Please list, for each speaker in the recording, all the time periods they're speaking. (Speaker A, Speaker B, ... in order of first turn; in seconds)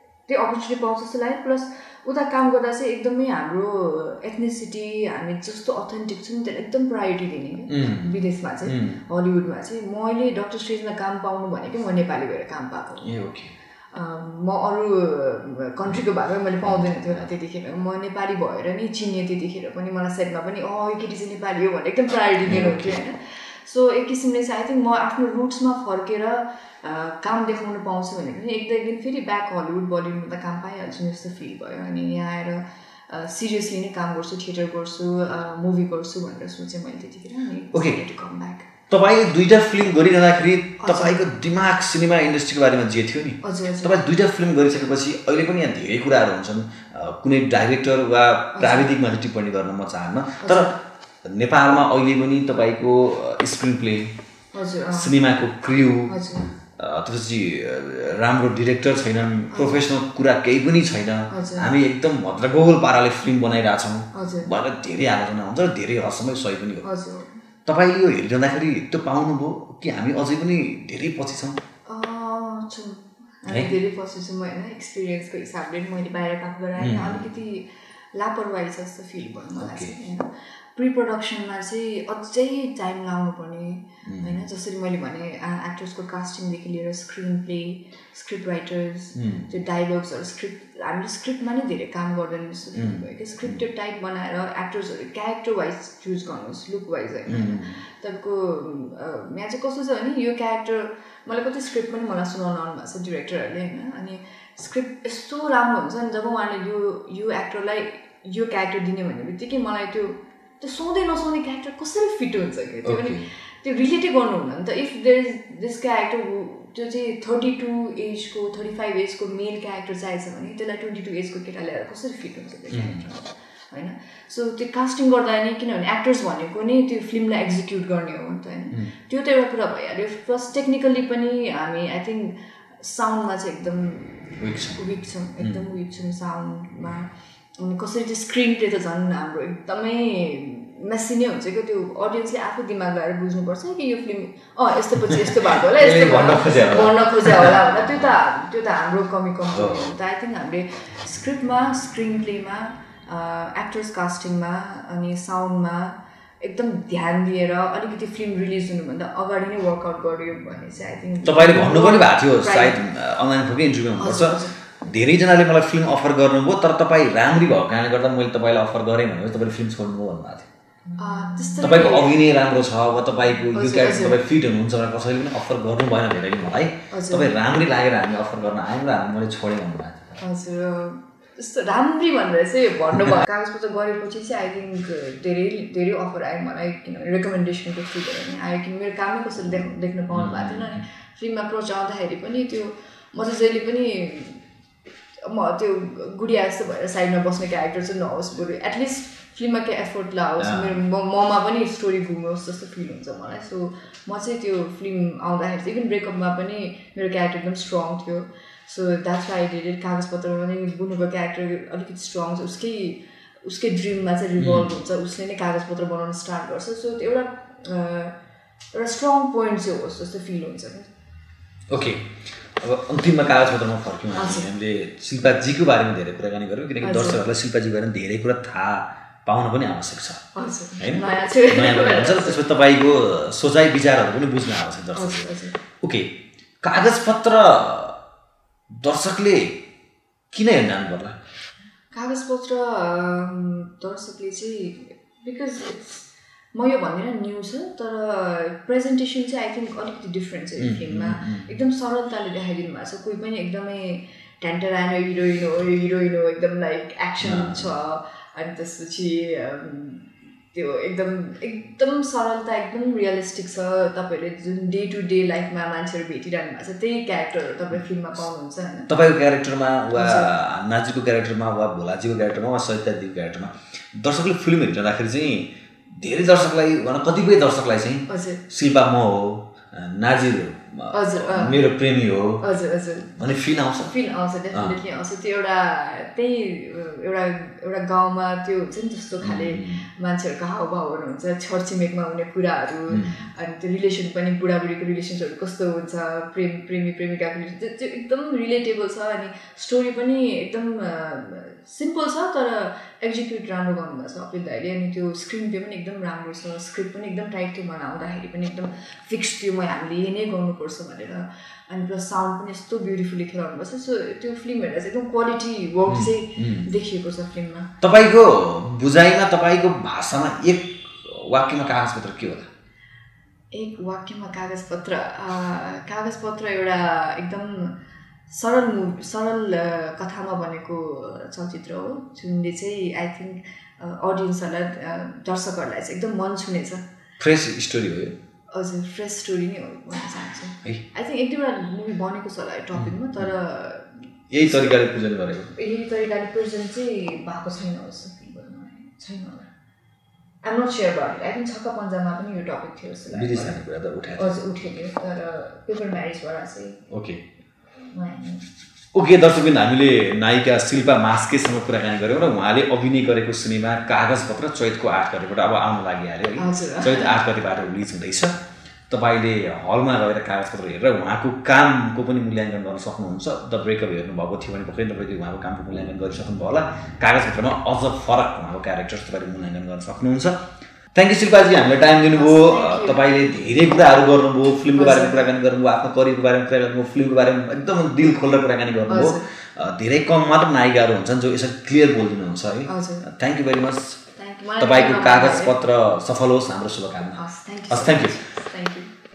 Speaker A: 0.3-13.1, 13.9-38.7, 40.8-41.2, 43.4-44.0, 48.5-48.9, 50.4-50.7, 54.5-55.1, 56.1-56.5, 59.5-59.8, 61.3-61.7, 64.1-64.5, 66.8-67.4, 71.9-162.8, 163.9-164.5, 171.0-172.2, 173.5-174.2, 176.9-177.3, 180.2-194.4, 195.2-218.2, 218.7-220.9, 224.2-224.5, 226.8-227.2, 230.3-232.4, 234.9-235.6, 241.9-268.9, 269.9-270.3, 278.1-278.4, 280.9-281.6, 282.4-283.1, 283.8-317.7, 323.5-336.8, 338.5-344.8, 345.5-349.5, 350.4-353.6, 354.1-356.8, 357.9-358.4, 366.4-367.1, 382.1-383.0, 384.7-385.2, 388.9-389.2, 392.6-393.1, 394.1-395.5, 397.1-398.9
Speaker B: 7.7-9.0, 13.0-13.5, 16.6-17.3, 22.4-23.0, 38.9-50.7, 51.2-54.1, 54.9-66.9, 67.7-71.6, 76.8-77.2, 79.6-79.9, 84.0-84.4, 89.1-89.5, 92.8-93.6, 97.3-97.8, 112.8-113.2, 122.7-123.0, 134.4-134.8, 145.1-148.1, 149.5-149.9, 161.2-170.5, 171.6-180.2, 190.1-190.8, 200.4-200.8, 214.4-214.8, 221.7-230.2, 230.8-235.3, 235.8-238.0, 238.7-239.6, 240.3-241.2, 250.6-251.5, 257.2-257.7, 268.9-282.4, 283.1-283.9, 289.2-289.8, 292.9-293.2, 315.9-316.7, 317.8-322.5, 337.2-338.2, 342.7-343.3, 344.3-345.5, 353.1-354.4, 356.9-357.2, 358.9-368.3, 368.9-394.0, 394.6-398.1